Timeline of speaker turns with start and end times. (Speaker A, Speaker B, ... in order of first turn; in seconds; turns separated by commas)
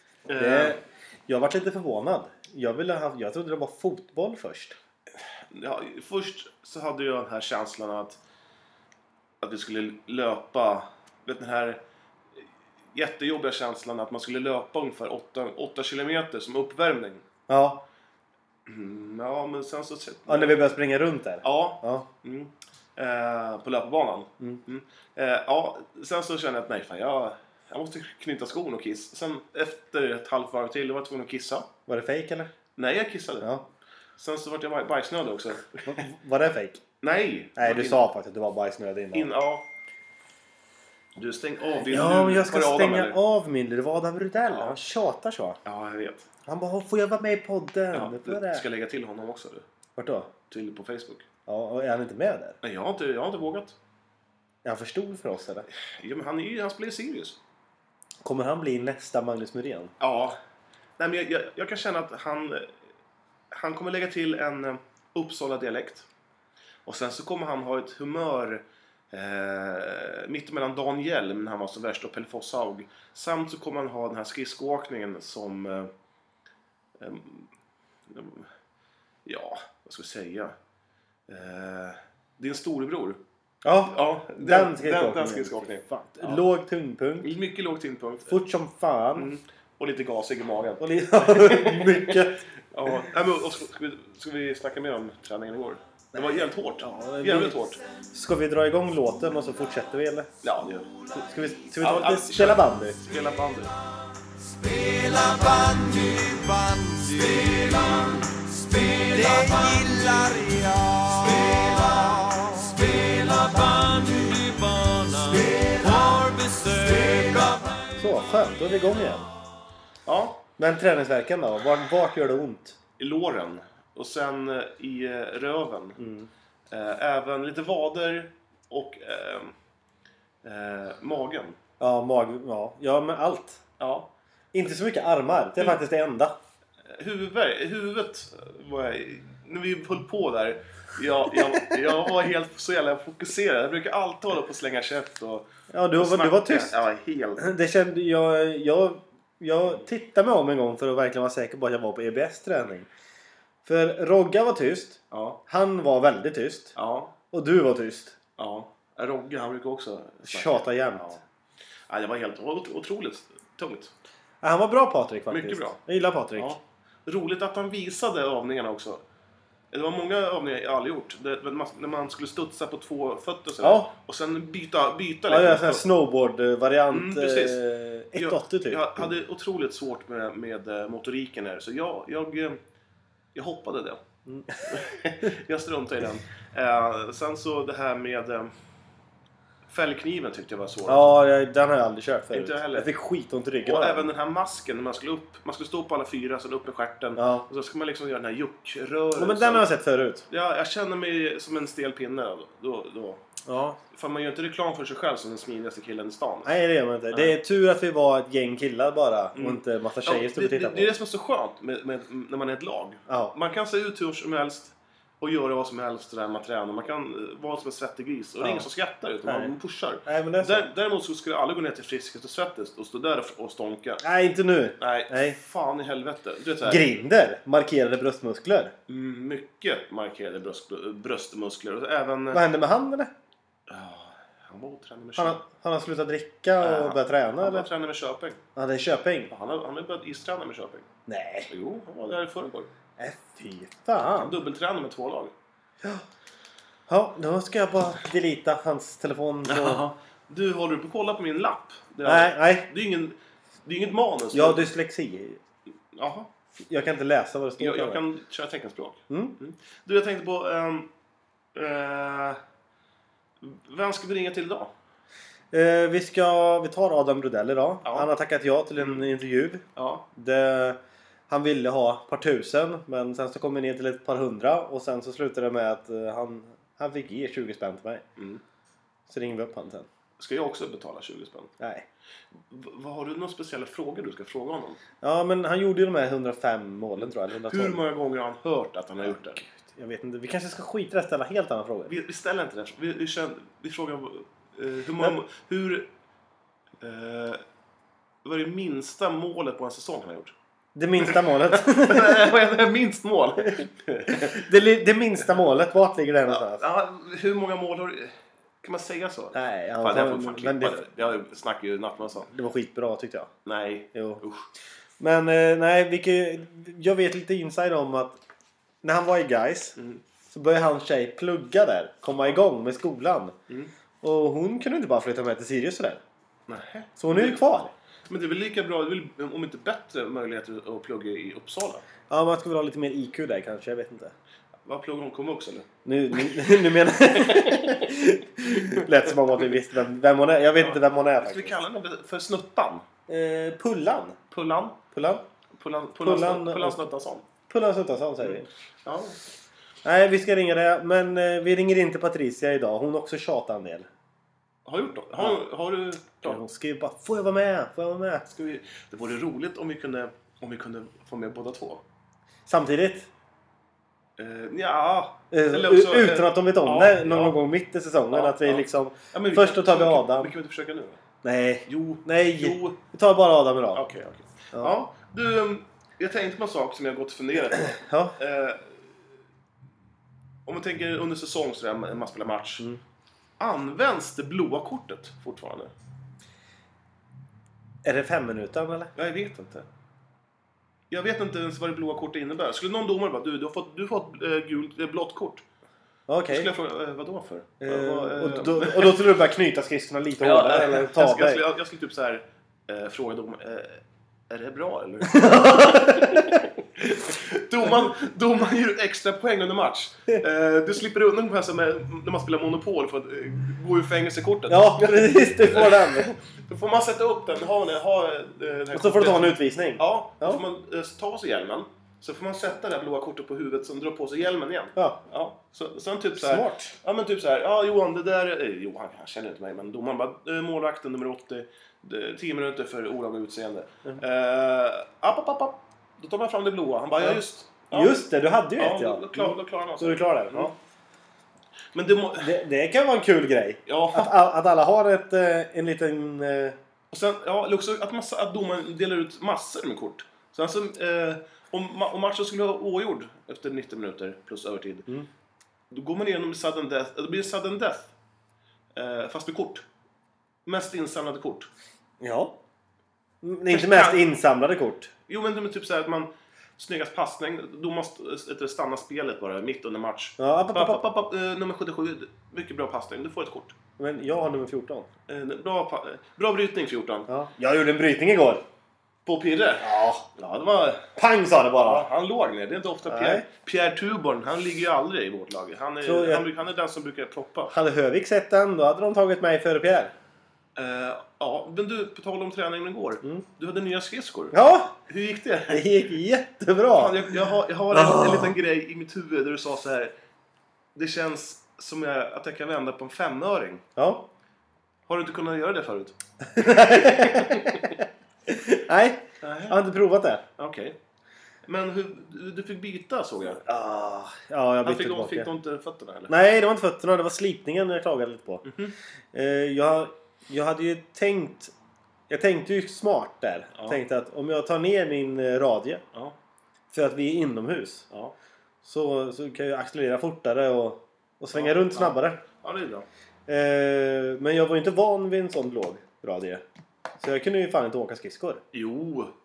Speaker A: 0.3-0.8, Speaker B: 0.3-4.8, Speaker A: 5.2-8.2, Speaker A: 9.4-11.8, Speaker A: 12.9-17.2, Speaker B: 17.5-17.9, Speaker A: 18.7-20.6, Speaker B: 20.3-22.1, Speaker A: 21.4-31.7, Speaker B: 31.9-32.5, Speaker A: 32.8-33.5, Speaker A: 34.2-36.0, Speaker B: 35.9-36.8, Speaker A: 37.0-38.0, Speaker B: 37.6-39.3, Speaker A: 39.1-39.6, Speaker A: 41.2-43.2, Speaker B: 41.9-45.6, Speaker A: 44.5-44.8, Speaker A: 45.6-46.3, Speaker B: 46.5-48.6, Speaker A: 47.9-49.6, Speaker B: 50.0-50.3, Speaker A: 50.5-51.3, Speaker B: 51.5-52.6, Speaker A: 52.6-53.8, Speaker B: 54.6-55.7, Speaker A: 55.7-57.4, Speaker B: 58.2-59.9, Speaker A: 60.0-60.4, Speaker A: 61.0-62.7, Speaker A: 63.5-66.1, Speaker A: 66.9-75.9, Speaker A: 77.0-77.5, Speaker A: 78.1-78.5, Speaker A: 79.2-80.6, Speaker A: 81.3-83.2, Speaker B: 83.6-87.3, Speaker A: 83.9-86.4, Speaker A: 87.2-88.4, Speaker B: 88.3-89.3, Speaker A: 89.2-97.8, Speaker B: 90.8-92.4, Speaker B: 96.2-100.3, Speaker A: 100.4-100.9, Speaker B: 101.2-103.0, Speaker A: 101.8-103.7, Speaker C: 104.4-117.8, Speaker B: 118.0-119.3, Speaker A: 120.1-120.4, Speaker B: 120.6-122.8, Speaker A: 123.0-126.0, Speaker B: 126.0-126.3, Speaker A: 126.7-129.6, Speaker A: 130.4-131.6, Speaker B: 131.8-133.6, Speaker A: 133.8-134.1, Speaker B: 134.5-136.3, Speaker A: 136.9-147.5, Speaker B: 145.7-146.8, Speaker B: 147.4-152.9, Speaker B: 153.7-156.8, Speaker A: 155.1-155.4, Speaker A: 156.8-157.1, Speaker B: 157.3-158.2, Speaker A: 158.4-161.2, Speaker B: 160.2-161.2, Speaker A: 161.9-163.9, Speaker B: 164.4-166.6, Speaker A: 165.3-165.8, Speaker A: 166.4-169.0, Speaker A: 169.7-175.9, Speaker B: 173.6-173.9, Speaker B: 175.3-179.1, Speaker A: 176.9-177.6, Speaker A: 178.2-182.6, Speaker A: 183.3-184.0, Speaker B: 184.3-184.8, Speaker A: 184.7-188.5, Speaker A: 189.7-191.2, Speaker B: 190.9-194.1, Speaker A: 192.3-192.9, Speaker A: 193.6-199.7, Speaker B: 197.2-197.5, Speaker B: 199.2-200.2, Speaker A: 200.3-203.2, Speaker B: 203.5-203.8, Speaker A: 203.9-206.6, Speaker B: 206.4-210.9, Speaker A: 209.3-224.0, Speaker B: 213.1-213.3, Speaker B: 218.4-218.7, Speaker B: 219.2-219.5, Speaker B: 220.1-220.7, Speaker B: 224.0-225.4, Speaker A: 224.8-226.8, Speaker B: 226.6-228.7, Speaker A: 228.9-232.4, Speaker B: 232.3-233.1, Speaker A: 233.7-235.4, Speaker B: 235.2-237.7, Speaker A: 236.6-238.4, Speaker B: 238.6-239.3, Speaker A: 239.3-240.9, Speaker B: 241.1-241.5, Speaker A: 241.5-242.7, Speaker B: 243.0-244.4, Speaker A: 244.1-245.3, Speaker B: 246.9-249.8, Speaker A: 249.5-254.7, Speaker B: 252.1-252.7, Speaker B: 254.3-255.4, Speaker A: 255.9-256.3, Speaker B: 256.6-258.0, Speaker A: 257.6-260.9, Speaker B: 259.1-259.4, Speaker A: 261.6-262.4, Speaker A: 263.4-264.7, Speaker B: 265.5-270.8, Speaker A: 267.8-268.1, Speaker A: 268.8-269.1, Speaker A: 269.8-270.1, Speaker B: 271.3-278.0, Speaker A: 278.2-278.4, Speaker B: 279.1-279.9, Speaker A: 280.2-281.5, Speaker B: 281.6-281.9, Speaker A: 282.3-284.8, Speaker B: 285.0-287.8, Speaker A: 287.4-289.4, Speaker B: 289.1-291.9, Speaker A: 291.9-295.9, Speaker A: 296.8-297.4, Speaker A: 298.2-300.4, Speaker B: 300.8-302.3, Speaker A: 301.0-304.5, Speaker B: 303.6-306.6, Speaker A: 306.3-312.3, Speaker B: 309.3-310.8, Speaker B: 312.3-313.3, Speaker A: 313.4-314.5, Speaker B: 313.9-314.2, Speaker B: 315.0-318.2, Speaker B: 318.8-319.8, Speaker A: 319.8-320.0, Speaker B: 320.3-323.4, Speaker B: 324.0-326.0, Speaker A: 326.5-327.4, Speaker B: 327.0-327.7, Speaker A: 328.1-331.9, Speaker B: 332.1-334.1, Speaker A: 334.6-336.6, Speaker B: 335.9-341.6, Speaker A: 337.1-337.9, Speaker A: 340.6-342.9, Speaker B: 343.1-344.2, Speaker A: 344.3-344.8, Speaker B: 344.9-345.2, Speaker A: 345.5-347.2, Speaker B: 346.0-346.9, Speaker B: 347.5-348.5, Speaker A: 348.2-349.2, Speaker B: 349.9-353.9, Speaker A: 354.6-356.4, Speaker B: 356.2-358.3, Speaker A: 358.3-361.8, Speaker B: 362.5-363.1, Speaker A: 364.2-367.4, Speaker B: 365.3-370.3, Speaker A: 368.1-371.0, Speaker B: 371.2-373.8, Speaker A: 371.7-372.8, Speaker A: 373.7-378.8, Speaker B: 377.7-378.1, Speaker A: 380.4-382.6, Speaker A: 383.4-385.7, Speaker B: 387.8-388.9, Speaker A: 388.9-389.7, Speaker A: 390.9-395.4, Speaker B: 396.1-396.5, Speaker A: 396.3-399.1, Speaker B: 397.6-401.4, Speaker A: 400.2-438.1, Speaker B: 405.1-406.4, Speaker B: 414.5-416.2, Speaker B: 418.7-420.4, Speaker B: 426.2-426.8, Speaker B: 437.0-440.6, Speaker A: 438.6-440.5, Speaker A: 441.7-442.4, Speaker B: 442.2-446.6, Speaker A: 443.7-444.1, Speaker A: 446.9-454.9, Speaker A: 455.7-457.9, Speaker A: 458.7-459.6, Speaker A: 460.4-461.5, Speaker B: 462.0-462.4, Speaker B: 463.2-464.9, Speaker A: 463.5-464.1, Speaker A: 465.1-473.6, Speaker B: 470.2-470.8, Speaker B: 473.8-474.9, Speaker A: 475.1-477.1, Speaker B: 477.1-478.4, Speaker A: 479.1-480.9, Speaker B: 479.6-480.1, Speaker B: 481.0-481.9, Speaker A: 481.6-487.5, Speaker B: 482.9-483.2, Speaker B: 485.8-486.3, Speaker B: 487.5-489.9, Speaker A: 490.6-495.7, Speaker B: 494.3-494.8, Speaker B: 495.5-497.1, Speaker A: 496.7-499.9, Speaker B: 497.7-498.3, Speaker A: 500.8-503.6, Speaker B: 503.8-504.1, Speaker A: 504.9-507.6, Speaker B: 506.3-510.2, Speaker A: 509.2-509.6, Speaker A: 510.4-510.8, Speaker A: 511.5-513.4, Speaker B: 513.4-515.3, Speaker A: 514.6-516.1, Speaker B: 516.1-518.5, Speaker A: 518.5-518.8, Speaker B: 519.1-521.5, Speaker B: 522.1-525.8, Speaker B: 526.7-527.9, Speaker B: 528.6-532.2, Speaker A: 531.3-532.9, Speaker B: 533.3-536.4, Speaker B: 537.0-538.4, Speaker A: 538.5-539.1